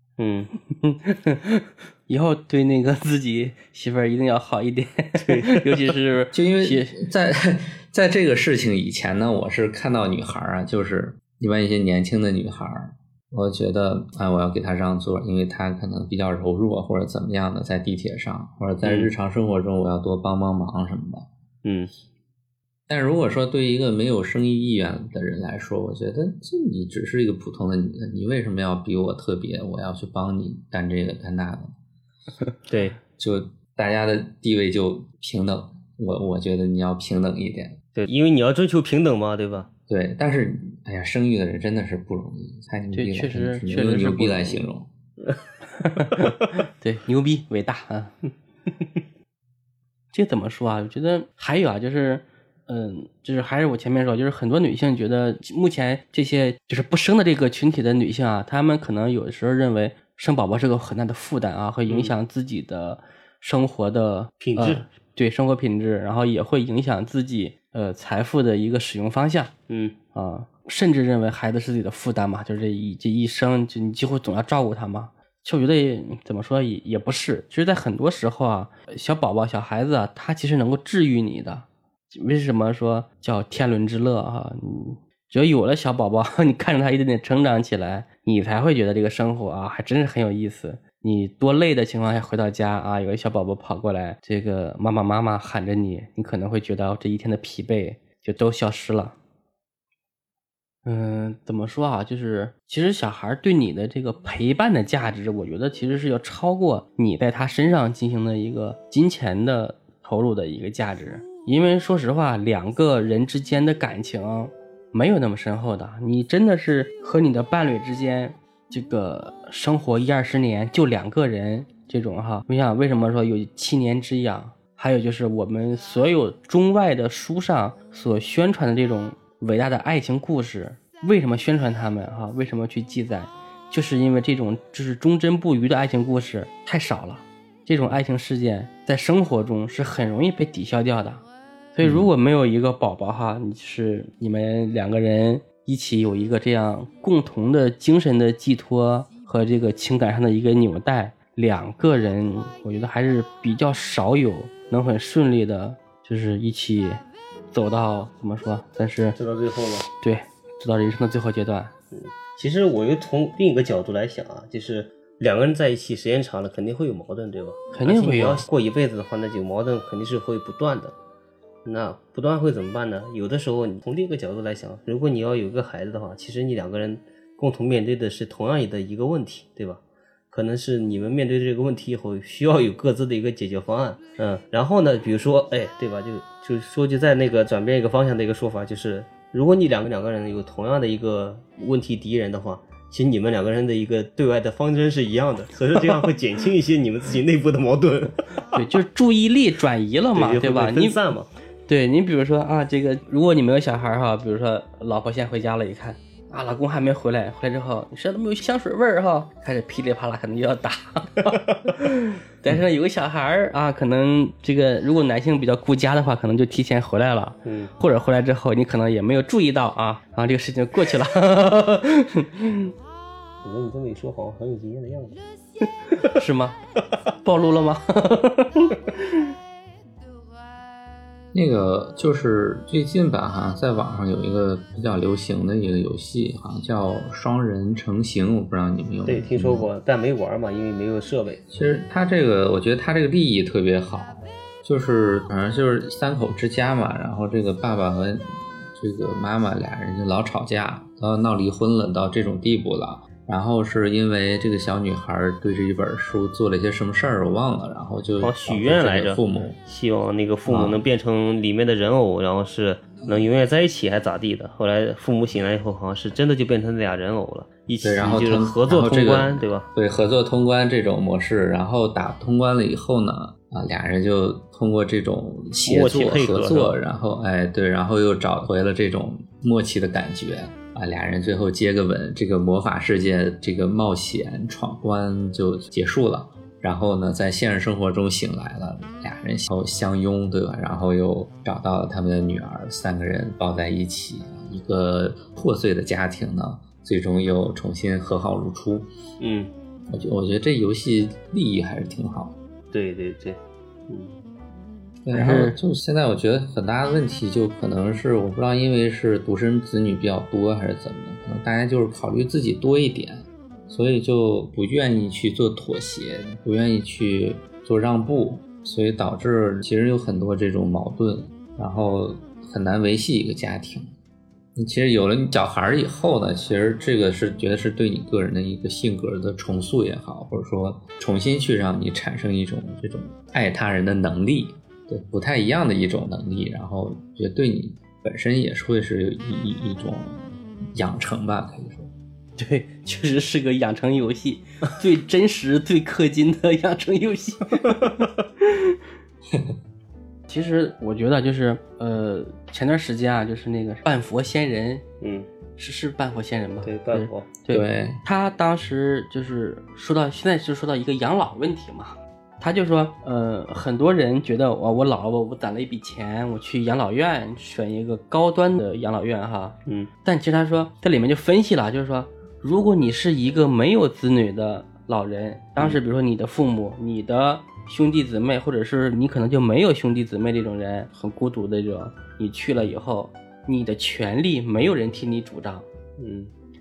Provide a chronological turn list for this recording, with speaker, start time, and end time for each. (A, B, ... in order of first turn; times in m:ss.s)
0:00.2-0:00.5 A
0:00.8-0:07.0 B
0:05.2-0:05.7 A
0:06.3-0:21.3 C
0:18.8-0:19.1 A
0:21.6-0:21.9 A
0:22.9-0:31.8 C
0:32.7-0:33.0 A
0:33.2-0:37.8 C
0:38.0-0:39.7 A
0:39.9-0:44.9 C
0:42.9-0:44.6 B
0:45.8-0:48.1 B
0:50.1-1:09.5 B
1:01.9-1:02.1 A
1:04.4-1:04.8 A
1:09.7-1:09.9 A
1:10.1-1:39.2 B
1:40.8-2:21.2 B
2:21.7-2:37.0 B
2:37.5-2:39.2 B
2:39.2-2:39.9 A
2:40.0-2:41.7 B
2:41.9-2:50.9 A
2:47.7-2:48.4 B
2:51.6-3:18.4 A
3:18.5-3:21.0 B
3:20.1-3:21.3 A
3:21.7-3:42.7 B
3:37.4-3:37.7 A
3:43.4-3:45.2 A
3:46.0-3:46.6 B
3:47.2-3:48.8 B
3:51.3-3:59.7 C
3:59.0-4:01.4 A
4:01.5-4:19.6 C
4:18.2-4:29.7 A
4:20.4-4:20.8 C
4:27.8-4:58.9 C
4:35.6-4:36.8 A
4:59.2-4:59.5 A
4:59.9-5:02.4 C
5:02.7-5:04.1 A
5:05.0-5:23.9 C
5:05.1-5:05.6 B
5:24.5-5:41.9 C
5:42.4-5:47.9 B
5:48.4-5:48.7 B
5:50.3-5:54.8 B
5:55.0-5:55.3 A
5:55.6-6:25.7 B
5:56.6-5:57.3 A
5:57.5-5:58.0 C
6:26.0-6:26.3 A